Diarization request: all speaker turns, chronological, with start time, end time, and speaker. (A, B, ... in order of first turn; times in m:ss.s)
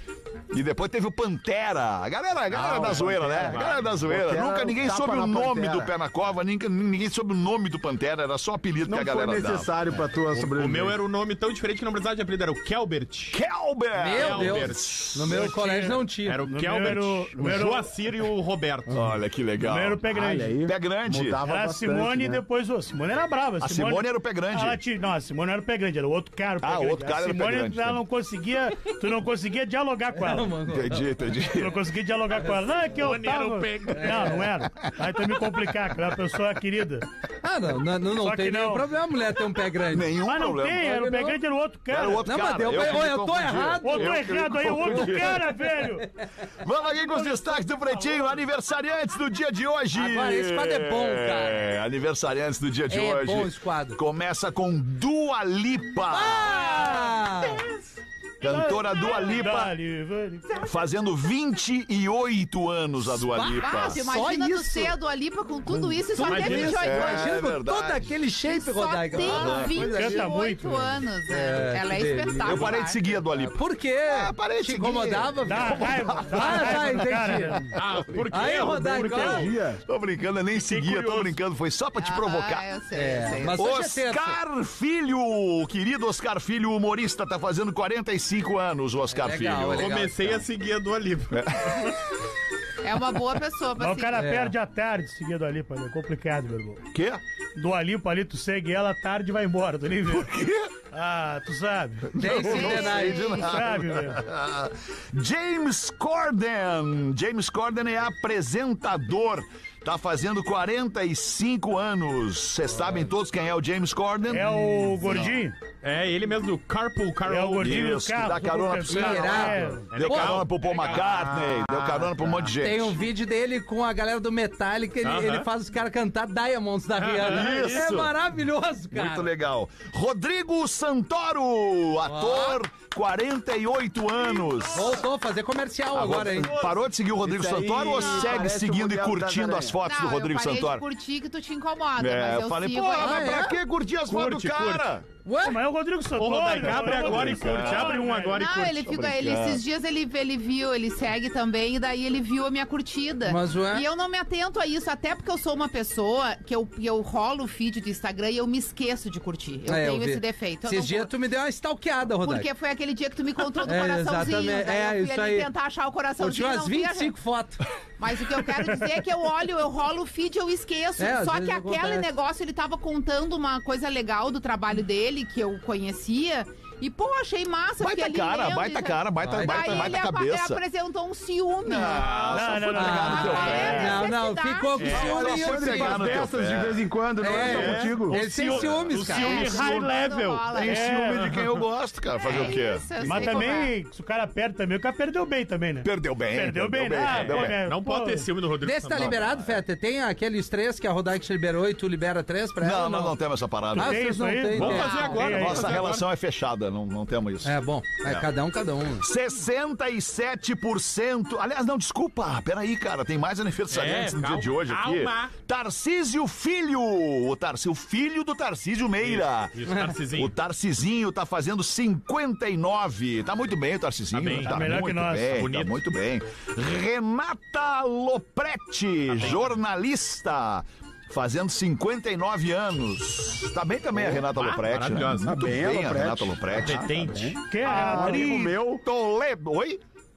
0:00.5-0:09.7 A
0:02.5-0:05.9 B
0:02.8-0:03.9 C
0:08.8-0:11.0 B
0:10.3-0:13.4 C
0:13.3-0:15.6 A
0:13.9-0:16.4 D
0:14.1-0:14.9 C
0:15.3-0:17.9 E
0:16.2-0:19.1 C
0:18.9-0:20.0 A
0:19.6-0:20.6 E
0:20.1-0:22.4 B
0:20.6-0:21.4 A
0:21.4-0:30.6 E
0:23.6-0:24.8 A
0:26.6-0:28.0 A
0:30.1-0:31.0 D
0:30.7-0:31.8 A
0:31.4-0:37.0 E
0:32.9-0:34.4 C
0:33.9-0:34.4 D
0:37.4-0:40.2 D
0:38.1-0:38.9 E
0:39.8-0:40.9 A
0:40.1-0:42.5 E
0:40.9-0:41.4 D
0:41.9-0:45.5 A
0:42.2-0:46.2 D
0:43.8-0:46.1 E
0:46.6-0:56.6 A
0:46.8-0:48.4 E
0:49.9-0:51.6 D
0:52.9-0:54.0 D
0:56.1-0:57.6 D
0:58.4-0:59.7 A
0:58.4-1:00.6 E
1:00.6-1:04.1 A
1:03.1-1:05.0 D
1:03.5-1:07.4 F
1:05.9-1:10.4 D
1:06.2-1:06.8 C
1:06.4-1:08.2 A
1:08.4-1:13.0 F
1:09.1-1:09.9 A
1:09.8-1:10.9 E
1:11.3-1:17.7 D
1:12.4-1:17.0 A
1:15.4-1:17.7 E
1:17.7-1:18.5 A
1:17.7-1:19.5 C
1:18.3-1:19.5 D
1:18.5-1:19.8 B
1:19.8-1:22.7 A
1:20.6-1:21.4 C
1:22.0-1:23.6 F
1:22.9-1:24.4 D
1:23.5-1:30.0 A
1:29.1-1:30.4 D
1:29.8-1:31.9 C
1:31.3-1:32.0 A
1:32.8-1:34.2 F
1:33.8-1:36.8 E
1:34.1-1:34.5 D
1:36.9-1:37.2 A
1:37.6-1:40.3 E
1:40.1-1:40.7 A
1:40.9-1:44.2 E
1:42.1-1:55.4 A
1:42.2-1:43.4 D
1:42.2-1:43.6 F
1:54.3-1:55.6 E
1:55.8-1:57.9 C
1:57.2-2:00.0 E
1:57.6-2:03.0 A
1:58.9-2:00.4 D
1:59.8-2:01.2 C
2:00.8-2:02.5 B
2:02.6-2:09.3 D
2:05.0-2:05.5 C
2:07.0-2:07.9 C
2:07.2-2:08.2 A
2:08.9-2:15.0 A
2:12.0-2:12.6 D
2:14.2-2:15.0 C
2:14.7-2:16.6 D
2:15.9-2:20.8 A
2:16.4-2:16.8 C
2:17.2-2:19.8 B
2:17.9-2:18.4 F
2:19.8-2:23.4 F
2:22.0-2:25.1 A
2:23.0-2:23.6 D
2:24.1-2:24.9 C
2:25.2-2:25.6 D
2:25.4-2:28.4 E
2:26.2-2:28.9 C
2:26.6-2:28.1 A
2:28.4-2:41.1 F
2:28.8-2:29.6 A
2:33.2-2:33.8 D
2:39.7-2:42.5 D
2:42.2-2:47.2 F
2:43.6-2:45.5 D
2:46.2-2:47.6 D
2:48.0-3:02.2 F
2:51.0-2:52.1 D
2:57.8-3:00.6 A
2:59.2-2:59.9 D
3:01.6-3:04.0 A
3:01.9-3:03.7 C
3:02.2-3:04.0 E
3:02.7-3:06.2 D
3:02.9-3:05.0 F
3:04.8-3:05.2 C
3:04.8-3:07.9 A
3:05.0-3:08.2 B
3:07.2-3:09.4 D
3:07.4-3:10.5 C
3:08.4-3:09.9 A
3:09.1-3:10.8 F
3:09.3-3:11.4 E
3:10.5-3:13.5 A
3:11.1-3:11.6 C
3:12.2-3:13.7 F
3:12.3-3:18.3 E
3:15.8-3:17.6 A
3:17.0-3:19.4 C
3:18.6-3:23.2 D
3:18.9-3:19.6 A
3:22.6-3:24.0 A
3:23.7-3:25.8 E
3:23.7-3:25.4 D
3:24.5-3:26.1 C
3:24.7-3:25.3 F
3:25.2-3:28.3 A
3:27.4-3:29.0 D
3:29.0-3:56.9 A
3:33.7-3:35.3 C
3:39.0-3:40.3 C
3:44.1-3:44.8 C
3:44.4-3:45.5 E
3:45.3-3:45.8 C
3:49.1-3:49.6 C
3:54.1-3:55.3 C
3:55.2-3:58.8 B
3:56.6-3:57.8 C
3:57.5-3:58.5 E
3:57.7-3:59.8 A